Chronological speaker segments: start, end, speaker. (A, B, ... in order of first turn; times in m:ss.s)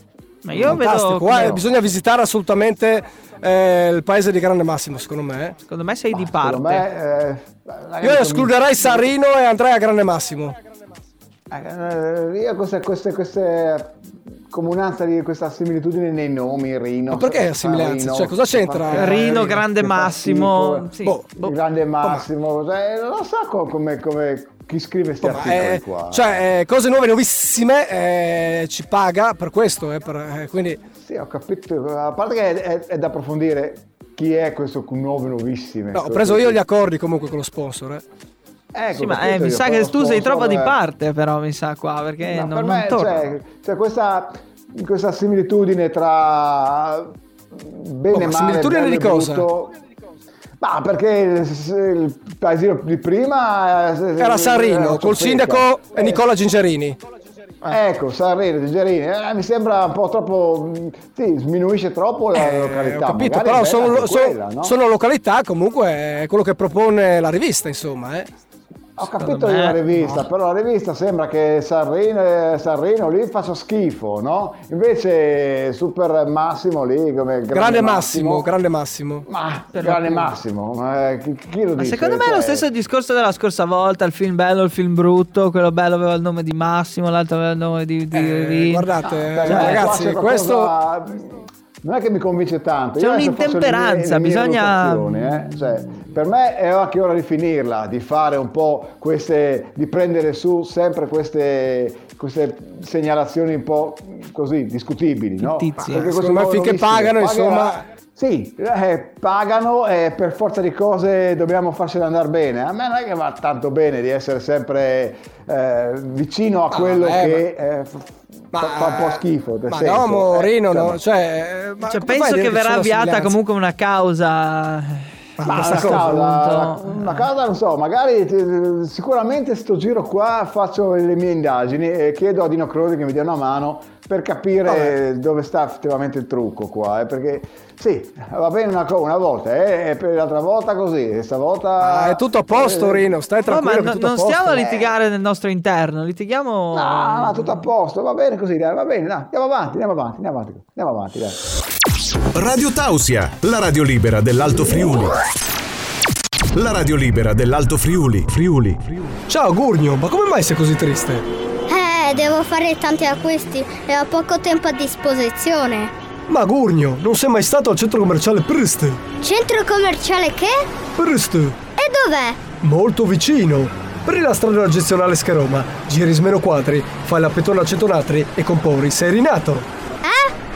0:00.4-0:01.6 A
0:00.5-0:00.8 B
0:00.5-0:05.6 C
0:05.6-0:06.9 A
0:06.1-0:09.1 B
0:08.0-0:10.6 C
0:11.5-0:26.4 B
0:17.1-0:19.6 C
0:18.9-0:21.5 A
0:21.0-0:21.3 C
0:25.2-0:30.8 C
0:31.0-0:36.6 B
0:35.9-0:38.0 C
0:38.7-0:40.8 B
0:38.9-0:43.3 A
0:42.2-0:49.7 B
0:48.1-0:49.5 C
0:50.6-0:56.2 B
0:54.2-0:57.0 C
0:57.7-1:04.8 B
1:02.3-1:08.3 C
1:09.0-1:18.5 B
1:09.1-1:10.2 A
1:17.5-1:19.2 C
1:19.2-1:22.6 B
1:19.7-1:20.3 A
1:21.8-1:28.9 A
1:28.1-1:30.7 C
1:29.3-2:01.0 B
1:29.4-1:29.9 A
1:33.0-1:35.5 A
1:45.4-1:46.0 A
1:45.8-1:47.8 C
1:56.7-1:57.4 C
1:58.5-2:03.4 C
2:01.8-2:07.3 A
2:05.4-2:06.3 C
2:05.4-2:23.1 B
2:14.7-2:15.0 C
2:21.8-2:24.6 C
2:23.5-2:27.7 A
2:24.5-2:24.9 B
2:26.7-2:31.4 B
2:32.3-2:35.2 D
2:36.5-2:39.1 D
2:39.3-2:41.2 C
2:41.7-2:45.9 E
2:46.3-2:49.0 C
2:49.2-2:50.7 E
2:51.0-2:51.6 C
2:51.8-2:52.4 E
2:52.6-2:59.7 C
3:00.0-3:00.3 E